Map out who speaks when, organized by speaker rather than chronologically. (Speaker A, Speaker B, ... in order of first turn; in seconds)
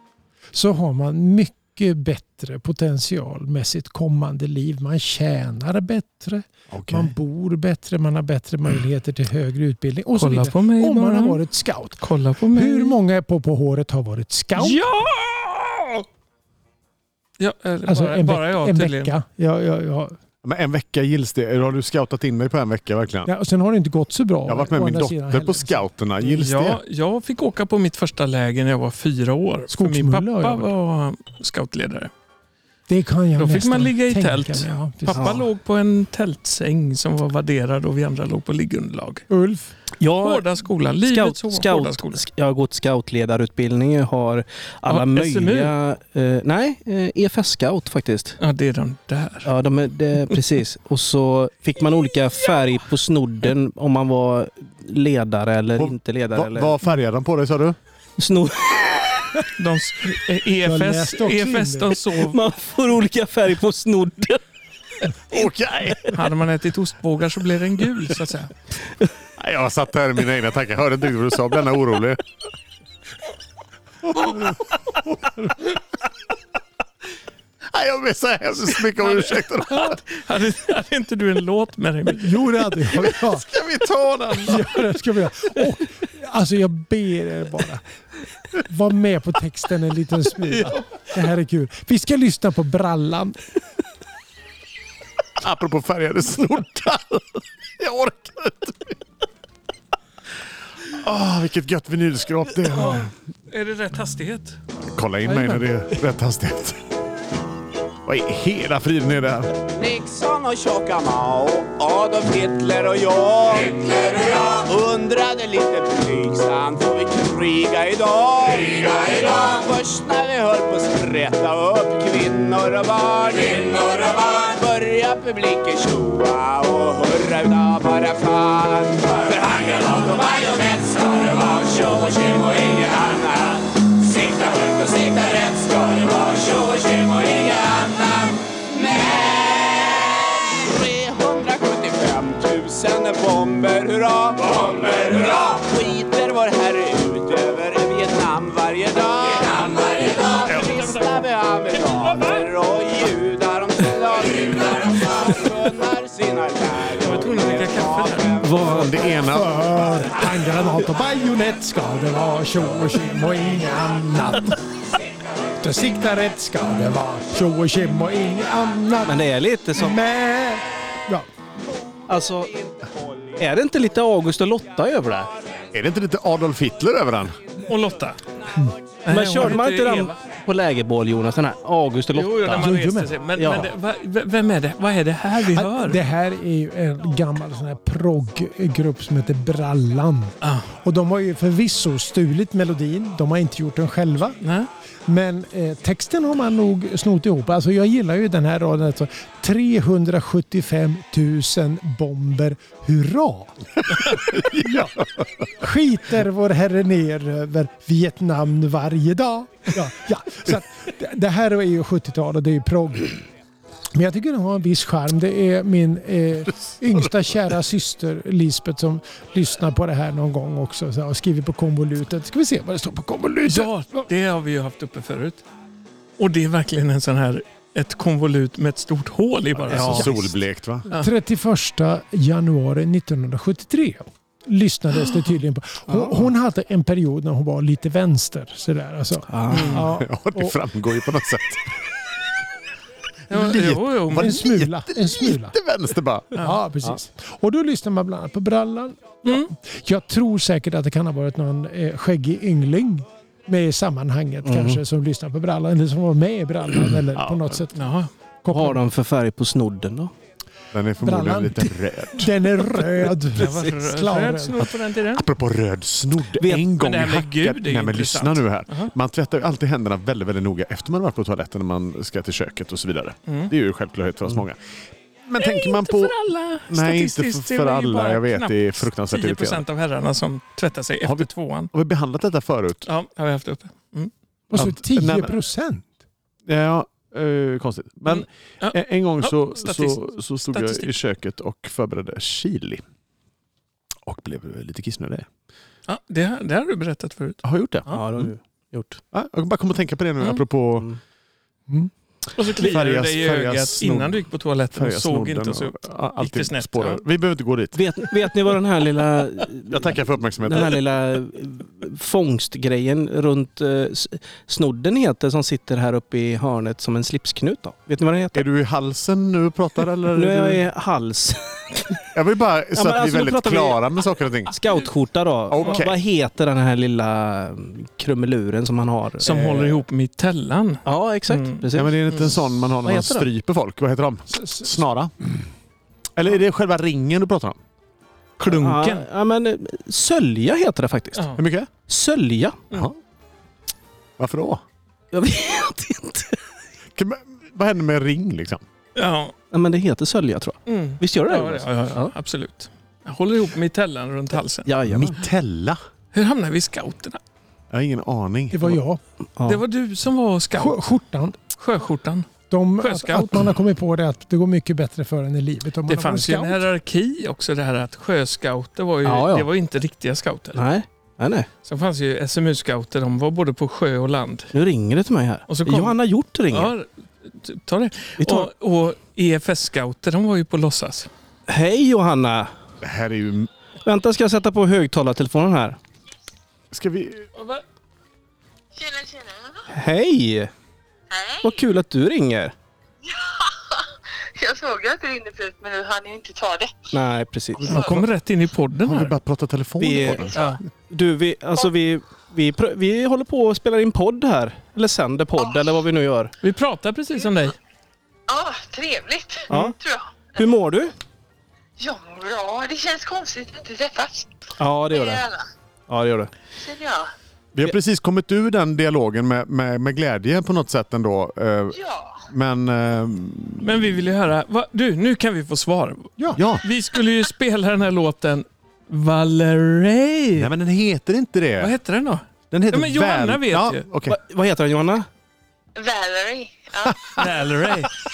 Speaker A: 0.5-14.8, 17.9-20.1, 23.3-25.9, 29.7-30.7, 32.9-35.4, 39.3-39.7, 60.6-62.0, 82.0-83.5, 84.4-87.8, 88.6-93.4, 105.3-105.7, 159.3-164.7, 165.6-169.2, 169.8-171.3, 182.5-183.2, 185.5-194.4, 195.1-204.9, 205.6-213.2, 213.9-224.1, 230.9-240.6, 244.1-245.6, 246.4-257.8, 258.4-258.8, 261.0-264.7, 284.5-285.9, 334.3-334.7, 358.5-359.0, 360.5-361.4, 362.5-366.6
Speaker B: 6.7-7.1, 20.4-23.3, 24.5-26.8, 55.8-57.8, 65.3-66.2, 69.4-72.2, 74.1-75.4, 77.7-80.0, 82.9-84.8, 95.4-99.0, 100.8-103.1, 104.9-106.8, 108.0-109.5, 158.6-160.0, 175.7-177.4, 204.3-205.3, 216.7-217.2, 229.6-230.9, 239.8-241.7, 243.3-246.3, 257.2-257.6, 260.7-262.6, 265.1-274.6, 275.3-279.6, 281.0-282.9, 284.6-285.4, 286.5-292.8, 294.1-295.3, 297.4-298.3, 299.1-300.9, 302.5-307.9, 309.7-310.9, 318.3-320.7, 322.1-324.6, 325.5-326.0, 331.7-335.3, 336.2-337.6, 341.4-341.7, 342.7-343.0, 344.2-344.6, 346.9-348.6, 354.8-355.8, 357.7-358.8, 382.8-383.5, 386.7-387.3, 397.6-398.1, 398.8-400.4, 417.6-424.0, 426.4-426.6, 430.4-431.7, 432.5-434.2, 436.9-437.3
Speaker C: 10.2-11.4, 12.0-13.0, 14.6-16.1, 17.4-19.1, 26.2-32.1, 33.4-39.2, 40.2-42.3, 44.9-45.8, 48.4-49.5, 59.6-62.4, 66.1-68.5, 79.0-82.5, 90.5-90.9, 102.7-104.6, 150.5-152.5, 157.0-158.4, 177.7-178.2, 179.1-180.2, 182.2-186.0, 190.4-190.7, 194.4-194.7, 223.5-225.4, 226.2-230.1, 239.5-239.9, 243.3-244.4, 257.7-258.1, 263.4-265.3, 266.6-268.9, 273.3-273.5, 275.4-281.7, 282.9-284.1, 288.1-290.9, 295.9-298.1, 302.4-307.0, 329.2-332.3, 338.4-339.1, 341.1-341.4, 349.0-349.3, 350.7-354.7, 356.1-357.2, 359.5-360.8, 361.6-362.3, 362.8-363.4, 365.9-370.6, 371.6-374.5, 375.5-376.0, 376.5-381.1, 387.4-387.6, 397.7-399.1, 406.4-407.6, 423.6-430.5, 431.6-433.9, 437.2-437.9
Speaker D: 40.0-40.5, 41.0-48.4, 49.5-56.7, 58.2-59.4, 62.1-64.4, 158.4-158.9, 169.1-170.0, 172.1-172.5, 173.4-175.3, 179.1-182.7, 183.4-183.7, 229.7-230.3, 235.9-236.3, 239.3-239.9, 254.4-254.8, 258.5-260.1, 266.4-266.7, 297.9-299.0, 307.7-318.4, 320.1-322.0, 322.7-323.8, 324.5-329.8, 330.9-333.3, 338.4-341.3, 341.9-342.6, 345.1-346.4, 349.5-352.1, 354.6-355.2, 369.0-369.5, 370.6-371.5, 374.5-376.7, 378.2-378.5, 381.5-382.5, 383.8-385.8, 389.7-390.5, 391.4-392.5, 396.9-397.9, 399.8-400.4, 400.9-406.3, 409.5-409.8, 410.4-410.9, 414.6-415.2, 415.9-416.3, 434.1-435.1
Speaker E: 109.7-158.9
Speaker F: 388.8-389.7, 391.1-391.6, 393.0-396.9, 405.4-405.8, 408.3-410.6, 411.8-415.5, 416.6-417.1, 421.7-422.2, 435.8-437.3